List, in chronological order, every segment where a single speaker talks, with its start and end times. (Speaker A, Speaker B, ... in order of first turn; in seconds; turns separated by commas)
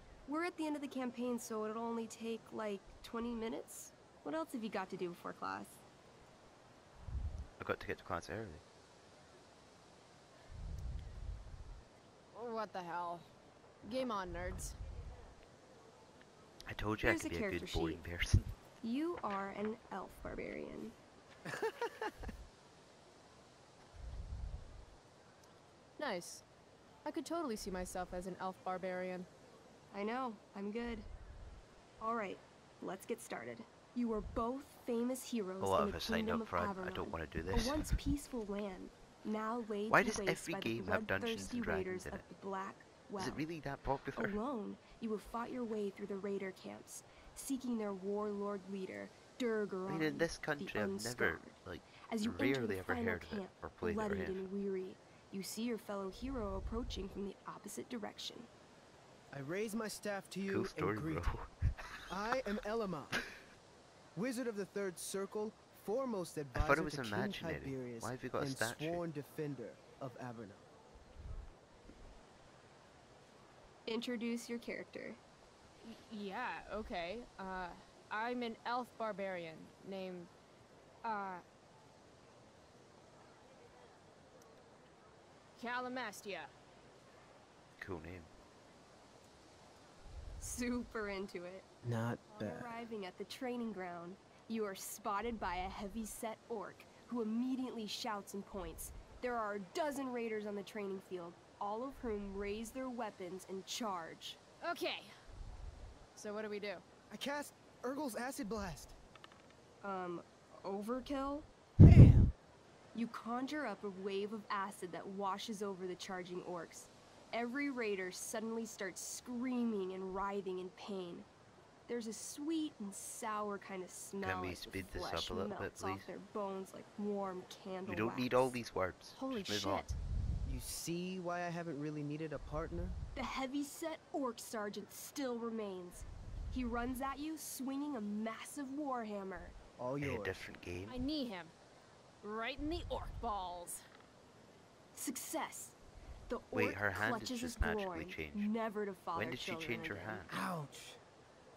Speaker A: 0.3-5.8, Speaker B: 7.6-8.6, Speaker C: 12.3-13.2, Speaker C: 13.8-14.8, Speaker B: 16.6-18.5, Speaker A: 17.0-18.0, Speaker A: 18.8-20.9, Speaker D: 21.5-22.1, Speaker C: 26.0-26.4, Speaker C: 27.0-29.3, Speaker A: 29.9-31.1, Speaker A: 32.0-43.4, Speaker B: 35.6-38.0, Speaker B: 39.9-42.2, Speaker B: 43.2-44.4, Speaker A: 44.1-58.5, Speaker B: 49.9-54.5, Speaker D: 59.3-61.3, Speaker B: 60.5-62.0, Speaker D: 62.1-63.2, Speaker D: 64.1-70.7, Speaker B: 66.5-69.0, Speaker A: 73.9-75.2, Speaker C: 75.8-80.3, Speaker C: 81.0-81.4, Speaker C: 85.6-86.5, Speaker B: 87.8-88.3, Speaker A: 90.4-91.6, Speaker D: 91.8-92.7, Speaker A: 92.3-104.4, Speaker C: 104.6-105.1, Speaker C: 106.2-106.8, Speaker D: 107.1-108.9, Speaker A: 109.8-111.5, Speaker D: 111.8-112.3, Speaker A: 112.9-121.3, Speaker A: 121.9-128.6, Speaker B: 124.2-126.1, Speaker B: 127.8-129.9, Speaker C: 129.1-129.9, Speaker D: 130.4-133.0, Speaker A: 133.1-139.6, Speaker D: 139.8-140.6, Speaker B: 140.0-141.0, Speaker C: 140.9-141.5, Speaker C: 142.2-143.8, Speaker A: 144.9-145.8, Speaker A: 146.3-150.3, Speaker B: 146.5-148.5, Speaker B: 149.1-150.3, Speaker D: 150.3-151.0